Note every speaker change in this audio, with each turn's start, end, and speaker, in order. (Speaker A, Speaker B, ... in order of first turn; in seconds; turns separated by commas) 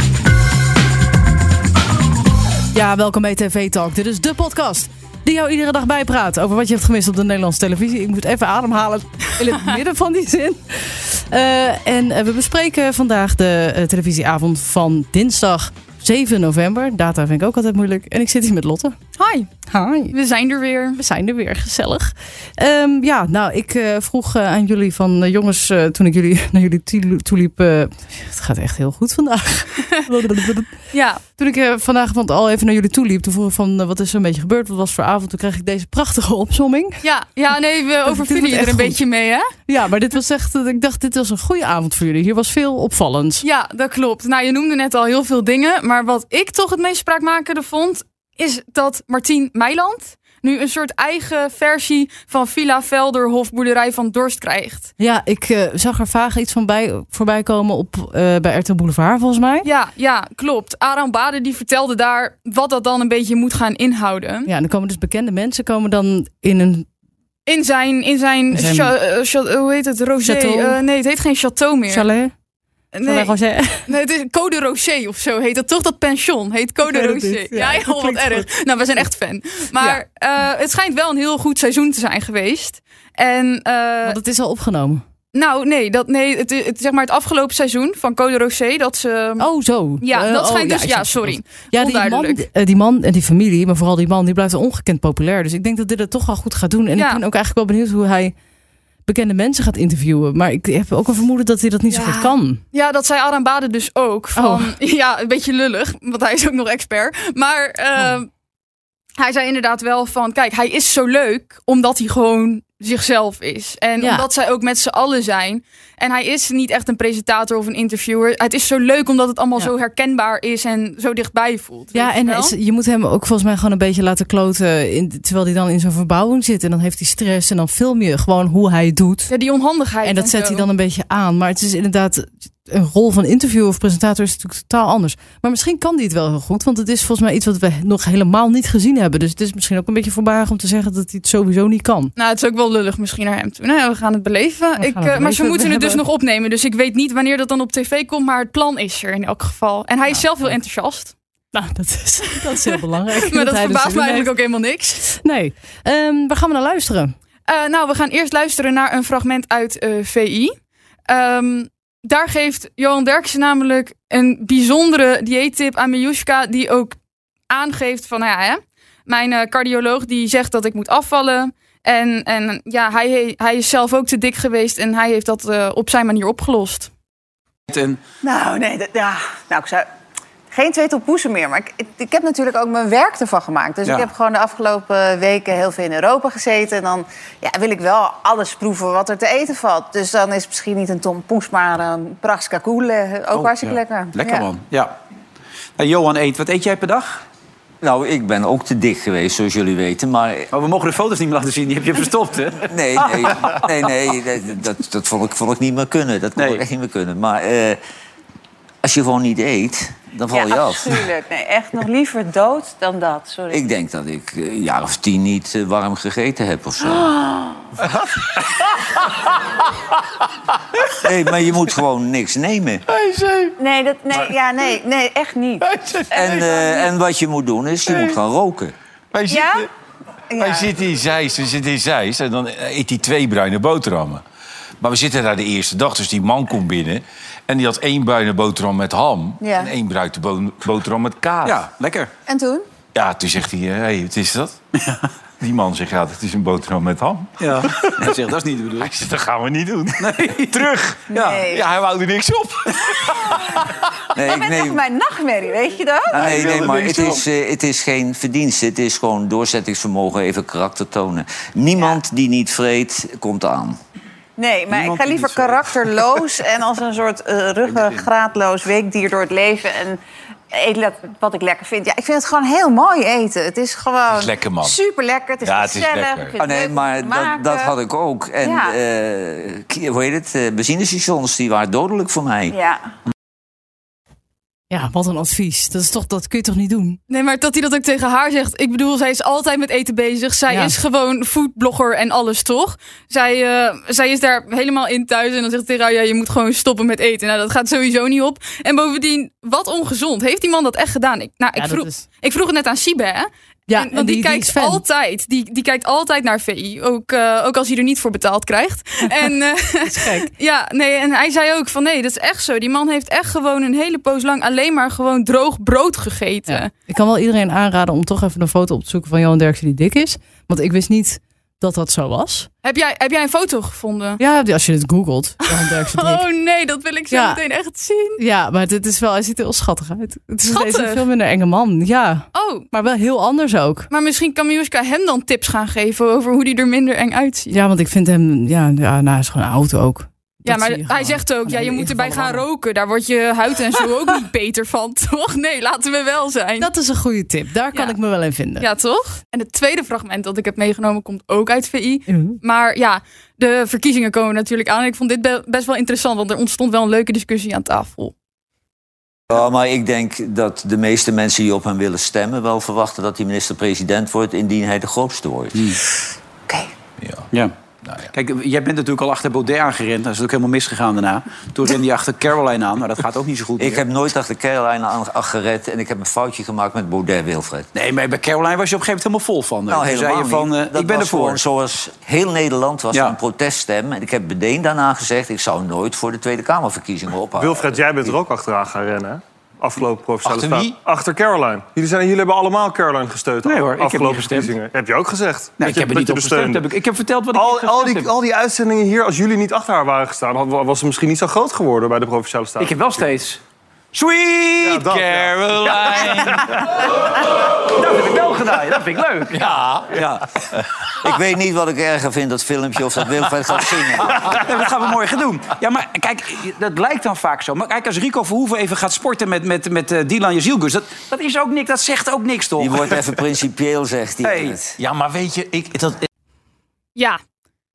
Speaker A: 2.7-19.0, Speaker B: 19.2-19.5, Speaker A: 19.7-20.1, Speaker B: 20.1-21.0, Speaker A: 20.9-30.8, Speaker B: 30.9-31.2, Speaker A: 31.4-37.0, Speaker B: 37.0-39.5, Speaker A: 38.0-39.0, Speaker A: 39.7-43.4, Speaker B: 43.4-54.9, Speaker A: 55.0-59.7, Speaker B: 59.6-64.5, Speaker A: 64.5-66.9, Speaker B: 67.5-72.1, Speaker A: 68.5-68.9, Speaker A: 70.2-70.8, Speaker A: 71.9-72.3, Speaker B: 72.9-84.2, Speaker A: 73.0-73.9, Speaker A: 76.8-78.5, Speaker A: 84.0-85.0, Speaker B: 85.3-89.5, Speaker A: 89.4-98.3, Speaker B: 90.0-92.4, Speaker B: 97.0-97.2, Speaker A: 99.1-102.6, Speaker B: 101.9-108.3, Speaker A: 104.4-104.7, Speaker B: 109.2-122.5, Speaker A: 121.9-129.3, Speaker B: 129.3-130.7, Speaker A: 130.0-142.1, Speaker B: 142.2-151.1, Speaker A: 144.8-146.0, Speaker A: 150.1-150.6, Speaker A: 151.5-154.3, Speaker B: 152.5-155.0, Speaker A: 155.1-157.2, Speaker B: 157.5-160.5, Speaker B: 161.1-167.0, Speaker B: 167.5-176.9, Speaker C: 177.7-178.0, Speaker D: 178.2-179.9, Speaker D: 180.5-194.5, Speaker C: 183.8-184.1, Speaker C: 193.3-195.0, Speaker C: 195.8-197.2, Speaker E: 197.8-200.5, Speaker C: 200.5-203.6, Speaker E: 202.7-207.8, Speaker C: 206.4-206.6, Speaker E: 208.8-211.0, Speaker D: 210.3-213.6, Speaker E: 213.5-217.1, Speaker E: 221.0-222.8, Speaker F: 222.9-223.5, Speaker D: 223.6-225.7, Speaker F: 225.7-226.4, Speaker E: 226.1-228.7, Speaker F: 229.1-229.7, Speaker D: 229.3-229.7, Speaker D: 230.3-230.7, Speaker F: 230.4-234.2, Speaker F: 234.8-241.6, Speaker D: 239.4-239.7, Speaker C: 241.4-242.1, Speaker D: 242.3-242.7, Speaker F: 242.9-244.6, Speaker F: 245.4-248.1, Speaker C: 247.4-249.0, Speaker F: 248.9-253.9, Speaker C: 250.0-251.5, Speaker D: 251.1-251.7, Speaker E: 254.1-254.8, Speaker D: 254.3-257.2, Speaker F: 256.2-257.2, Speaker E: 256.2-263.8, Speaker D: 264.4-270.0, Speaker C: 264.7-265.6, Speaker C: 267.7-268.0, Speaker D: 270.5-277.7, Speaker F: 274.1-274.8, Speaker F: 275.4-276.4, Speaker E: 276.4-282.6, Speaker D: 278.4-278.7, Speaker D: 282.5-282.9, Speaker A: 284.7-287.0, Speaker B: 287.1-316.7, Speaker A: 301.6-302.1, Speaker A: 303.7-304.8, Speaker A: 309.9-310.3, Speaker A: 316.5-322.5, Speaker B: 322.6-324.2, Speaker A: 324.2-326.2, Speaker B: 325.5-328.2, Speaker A: 327.1-327.4, Speaker A: 328.2-333.9, Speaker B: 330.5-331.1, Speaker B: 332.4-332.7, Speaker B: 333.9-337.6, Speaker A: 337.5-342.4, Speaker B: 340.5-346.7, Speaker A: 346.6-348.7, Speaker B: 347.7-348.0, Speaker B: 348.6-358.1, Speaker A: 352.1-352.4, Speaker E: 359.3-365.8, Speaker F: 367.0-367.3, Speaker C: 368.1-373.9, Speaker E: 373.6-377.7, Speaker C: 377.8-381.4, Speaker E: 379.7-387.8, Speaker G: 387.4-396.7, Speaker E: 390.3-390.7, Speaker C: 393.4-394.5, Speaker C: 395.6-398.2, Speaker G: 397.3-403.1, Speaker C: 402.6-403.4, Speaker C: 403.9-404.9, Speaker G: 404.6-406.4, Speaker F: 404.9-406.0, Speaker C: 407.7-410.3, Speaker F: 409.4-409.9, Speaker E: 410.9-414.3, Speaker C: 414.2-423.2, Speaker E: 422.6-424.7, Speaker C: 424.2-424.6, Speaker F: 424.9-425.5, Speaker C: 425.6-425.9